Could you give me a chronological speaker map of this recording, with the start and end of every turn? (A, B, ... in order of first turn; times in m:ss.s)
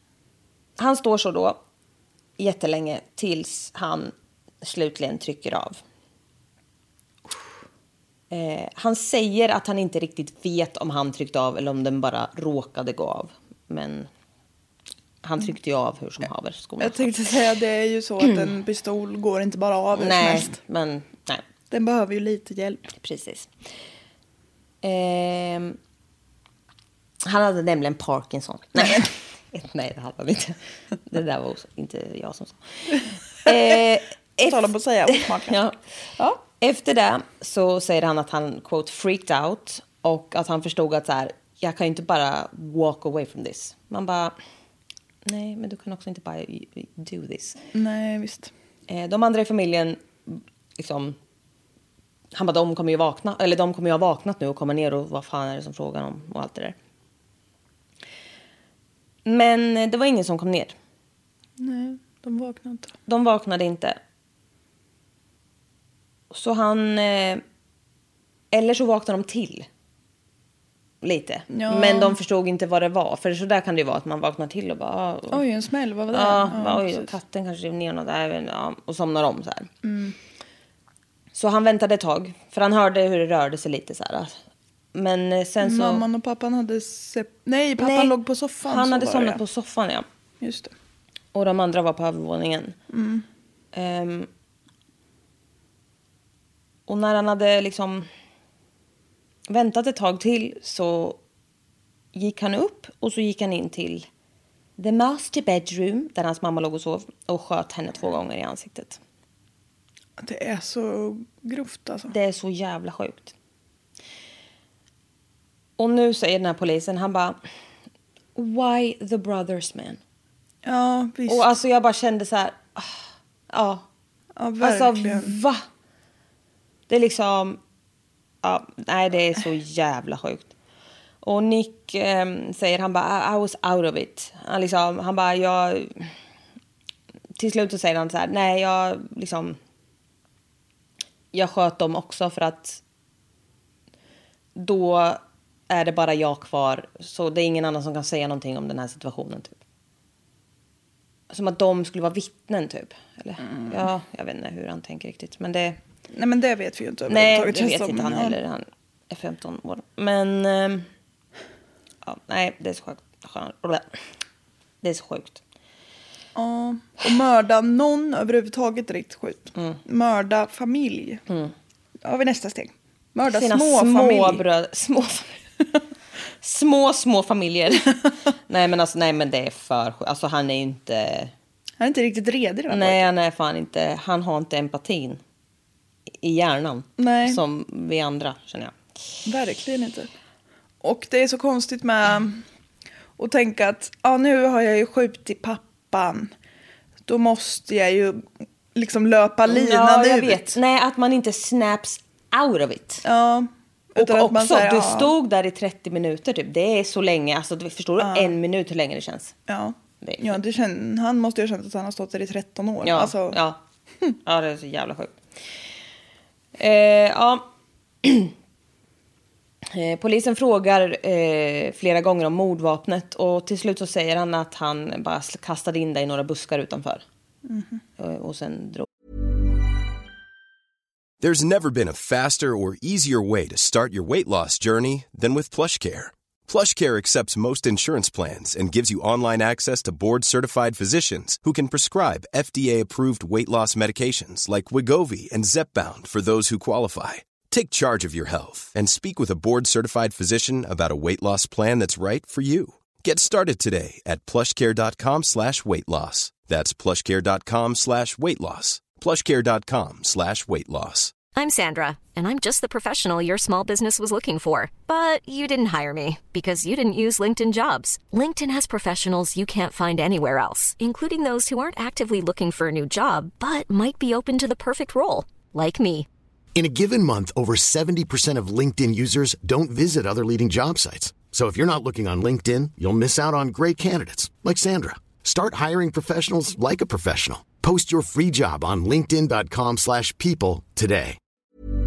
0:00.8-0:01.6 A
0:02.4-0:05.8 A
0:08.3-0:14.1 A
0:15.2-0:17.2 A
0:16.8-0:20.6 B
0:19.9-0:21.4 A
0:21.7-0:22.9 B
0:22.9-0:23.5 A
0:24.8-0:25.8 A
0:27.2-0:35.8 A
0:33.5-0:33.8 B
0:34.4-0:35.6 B
0:36.4-0:44.4 A
0:45.2-0:47.6 A
0:47.7-0:48.5 B
0:48.9-0:51.2 A
0:52.3-0:56.8 A
0:59.2-1:00.8 A
1:01.6-1:02.9 B
1:03.1-1:04.0 A
1:06.3-1:07.4 A
1:08.5-1:09.7 A
1:11.0-1:15.4 A
1:11.5-1:12.2 B
1:15.3-1:17.1 B
1:16.1-1:19.7 A
1:19.8-1:20.2 B
1:21.4-1:24.4 A
1:24.9-1:26.1 A
1:25.6-1:29.4 B
1:27.8-1:30.1 A
1:30.4-1:30.7 B
1:31.3-1:32.8 A
1:32.9-1:33.3 B
1:33.7-1:34.3 A
1:36.9-1:38.1 A
1:39.5-1:41.2 A
1:42.1-1:44.1 A
1:44.8-1:49.0 A
1:50.2-1:52.1 B
1:52.1-1:53.3 A
1:55.8-1:57.4 A
1:58.4-2:00.0 A
2:00.6-2:01.5 B
2:01.3-2:03.8 A
2:04.4-2:05.4 B
2:04.6-2:05.6 A
2:06.9-2:07.6 A
2:08.4-2:10.5 A
2:11.2-2:16.1 A
2:17.4-2:19.6 A
2:21.3-2:22.8 A
2:24.6-2:29.6 A
2:31.3-2:35.8 A
2:33.5-2:33.8 B
2:36.1-2:38.4 B
2:37.1-2:40.9 A
2:42.0-2:43.9 A
2:44.8-2:45.4 A
2:46.4-2:51.2 B
2:49.6-2:49.8 A
2:51.3-2:51.5 A
2:52.0-2:54.4 B
2:53.3-2:55.4 A
2:56.4-3:01.3 A
3:01.8-3:03.1 B
3:02.7-3:05.2 A
3:06.2-3:08.7 A
3:07.0-3:07.4 B
3:09.3-3:10.1 B
3:10.8-3:12.4 B
3:13.2-3:16.3 B
3:17.1-3:20.6 B
3:19.5-3:23.0 A
3:23.0-3:25.1 B
3:24.0-3:29.4 A
3:28.0-3:28.4 B
3:29.5-3:33.4 B
3:30.0-3:30.4 A
3:32.8-3:33.6 A
3:34.2-3:35.2 A
3:36.6-3:37.5 A
3:38.0-3:38.3 A
3:39.7-3:47.0 A
3:47.5-3:47.8 B
3:48.0-3:48.9 A
3:51.2-4:21.1 C
4:21.3-4:36.1 D
4:36.6-4:51.2 E